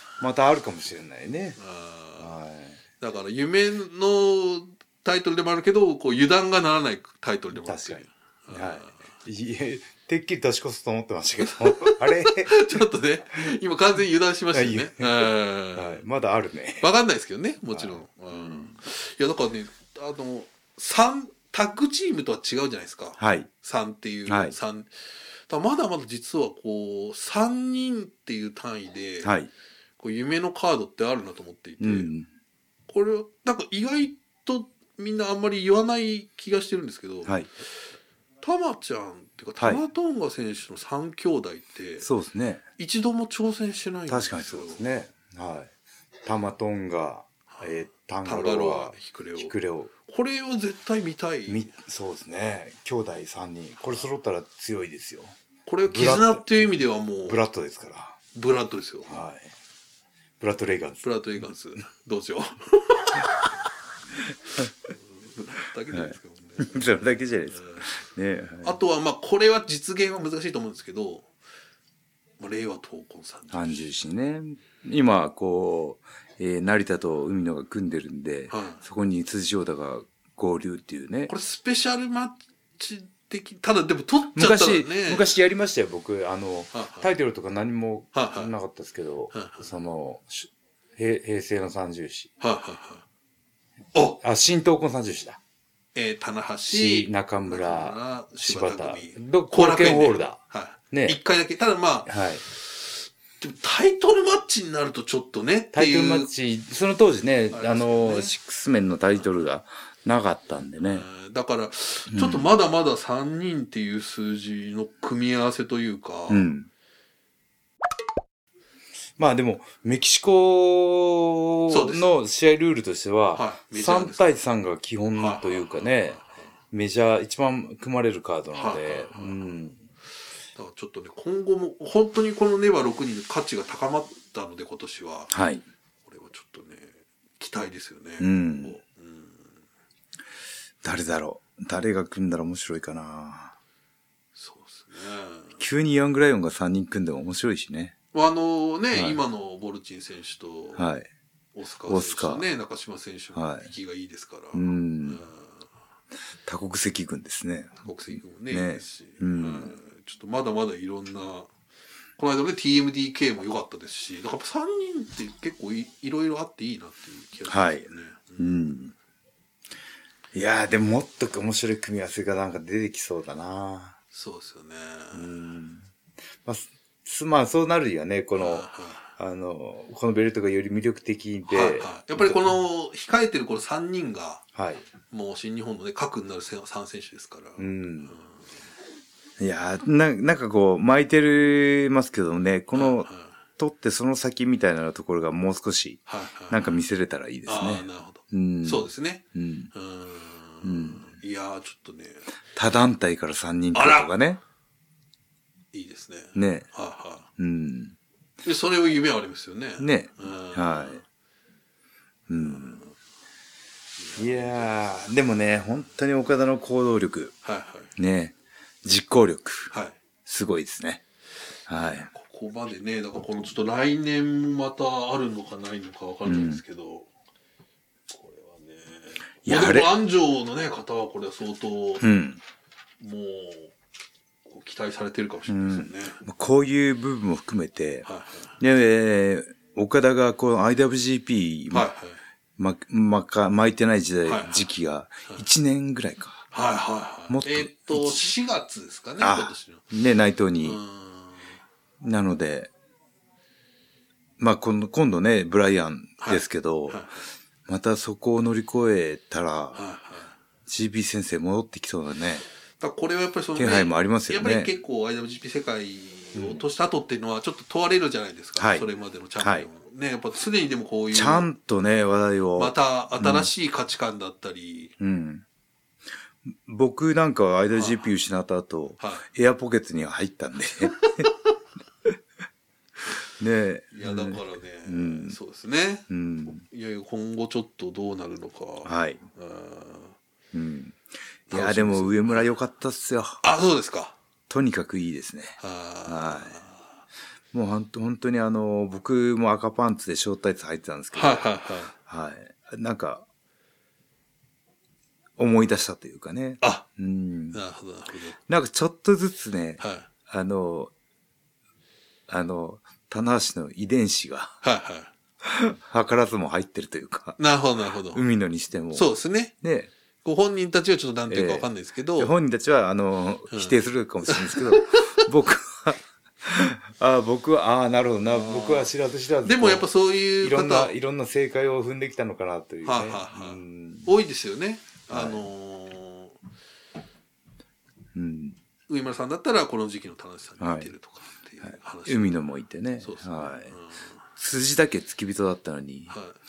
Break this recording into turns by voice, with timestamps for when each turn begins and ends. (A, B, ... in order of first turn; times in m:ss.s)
0:00.2-0:01.6 A
0:01.6-0:02.3 B
0:02.2-0:02.8 A
0:03.0-0:09.1 B
0:07.6-0:12.6 A
0:11.4-0:16.0 B
0:14.5-0:16.9 A
0:16.8-0:24.9 B
0:17.7-0:18.7 A
0:23.2-0:23.5 A
0:24.3-0:24.5 A
0:25.5-0:29.3 B
0:29.2-0:29.5 A
0:30.0-0:32.1 B
0:31.8-0:32.3 A
0:32.9-0:37.4 B
0:38.4-0:42.1 B
0:42.0-0:42.6 A
0:42.8-0:44.8 B
0:44.1-0:45.7 A
0:46.2-0:49.9 A
0:47.5-0:51.7 B
0:51.5-0:55.4 A
0:55.6-0:57.4 B
0:55.9-0:56.4 A
0:57.3-0:58.2 A
0:58.3-0:59.1 B
0:59.1-0:59.5 A
1:00.4-1:01.4 A
1:01.0-1:03.3 B
1:04.9-1:07.9 B
1:05.9-1:08.7 A
1:08.6-1:11.3 B
1:12.4-1:13.8 B
1:13.5-1:21.3 A
1:18.5-1:18.8 B
1:21.3-1:25.3 B
1:24.3-1:32.3 A
1:26.7-1:27.1 B
1:28.1-1:28.5 B
1:29.3-1:29.7 B
1:32.4-1:33.0 B
1:33.9-1:34.2 B
1:34.2-1:35.4 A
1:35.9-1:46.3 B
1:36.7-1:40.4 A
1:40.9-1:41.2 A
1:42.1-1:42.4 A
1:45.7-1:51.1 A
1:47.5-1:48.3 B
1:50.8-1:56.5 B
1:52.1-1:52.5 A
1:56.3-1:56.7 A
1:59.2-2:06.2 A
2:01.7-2:02.1 B
2:03.3-2:04.4 B
2:05.2-2:06.5 B
2:06.7-2:09.8 A
2:08.5-2:09.4 B
2:10.5-2:15.3 B
2:15.3-2:15.6 A
2:16.0-2:19.6 B
2:18.2-2:18.8 A
2:20.8-2:23.5 A
2:24.4-2:25.6 B
2:25.6-2:27.9 A
2:28.1-2:30.8 B
2:28.9-2:29.2 A
2:30.8-2:31.1 A
2:31.5-2:35.7 B
2:31.9-2:32.4 A
2:33.3-2:33.7 A
2:34.5-2:35.2 A
2:36.4-2:39.7 A
2:37.8-2:41.5 B
2:42.2-2:48.9 B
2:47.5-2:48.9 A
2:50.3-2:54.0 A
2:54.1-2:55.3 B
2:55.1-2:55.9 A
2:56.4-3:02.5 A
2:58.4-2:59.1 B
3:01.5-3:04.4 B
3:04.5-3:04.8 A
3:05.1-3:08.4 B
3:07.6-3:08.2 A
3:09.4-3:19.7 A
3:12.7-3:13.3 B
3:16.1-3:16.8 B
3:17.4-3:22.3 B
3:20.6-3:21.1 A
3:22.5-3:24.4 A
3:23.7-3:24.1 B
3:25.7-3:27.3 B
3:26.3-3:26.7 A
3:27.4-3:28.0 A
3:28.4-3:31.0 B
3:29.8-3:31.0 A
3:32.3-3:32.8 A
3:32.4-3:32.9 B
3:34.0-3:35.1 B
3:34.2-3:37.3 A
3:37.4-3:37.9 B
3:38.0-3:39.7 A
3:39.7-3:40.0 B
3:40.2-3:41.0 A
3:41.7-3:42.1 A
3:42.1-3:47.1 B
3:46.2-3:46.6 A
3:48.1-3:52.1 B
3:49.4-3:49.9 A
3:52.0-3:52.4 A
3:53.0-3:53.7 B
3:54.4-3:56.2 B
3:55.5-3:58.1 A
3:58.0-3:58.6 B
3:58.6-4:01.9 A
4:01.7-4:02.2 B
4:02.6-4:06.4 A
4:04.2-4:04.6 B
4:06.5-4:09.8 B
4:07.3-4:08.2 A
4:09.2-4:10.8 A
4:10.6-4:11.6 B
4:12.0-4:12.7 A
4:14.4-4:17.1 A
4:16.2-4:17.2 B
4:17.7-4:19.8 A
4:19.7-4:20.3 B
4:20.7-4:22.4 A
4:22.8-4:31.5 B
4:23.6-4:24.7 A
4:26.3-4:26.6 A
4:28.6-4:28.8 A
4:29.4-4:29.7 A
4:31.1-4:33.5 A
4:32.6-4:34.9 B
4:35.0-4:35.4 A
4:36.4-4:41.2 A
4:37.7-4:38.1 B
4:39.0-4:39.2 B
4:43.4-4:45.4 A
4:43.9-4:50.2 B
4:46.1-4:46.6 A
4:48.8-4:49.2 A
4:50.5-4:53.4 A
4:51.5-4:52.5 B
4:53.4-4:54.2 B
4:54.5-4:56.6 A
4:55.6-4:56.9 B
4:57.5-5:01.4 A
5:01.1-5:01.9 B
5:02.0-5:03.2 A
5:05.4-5:07.6 A
5:07.5-5:08.4 B
5:08.5-5:10.9 A
5:09.8-5:10.1 B
5:12.3-5:14.6 A
5:14.6-5:15.1 B
5:15.4-5:17.4 A
5:17.4-5:18.2 B
5:18.1-5:19.1 A
5:18.9-5:19.5 B
5:19.6-5:19.9 A
5:20.2-5:22.3 B
5:21.3-5:29.9 A
5:23.5-5:25.2 B
5:28.3-5:28.9 B
5:29.4-5:30.9 B
5:30.4-5:34.1 A
5:32.8-5:36.4 B
5:35.1-5:35.4 A
5:38.1-5:38.6 A
5:38.9-5:42.4 B
5:40.6-5:40.9 A
5:42.0-5:43.7 A
5:43.0-5:44.2 B
5:44.4-5:46.1 A
5:46.1-5:46.4 B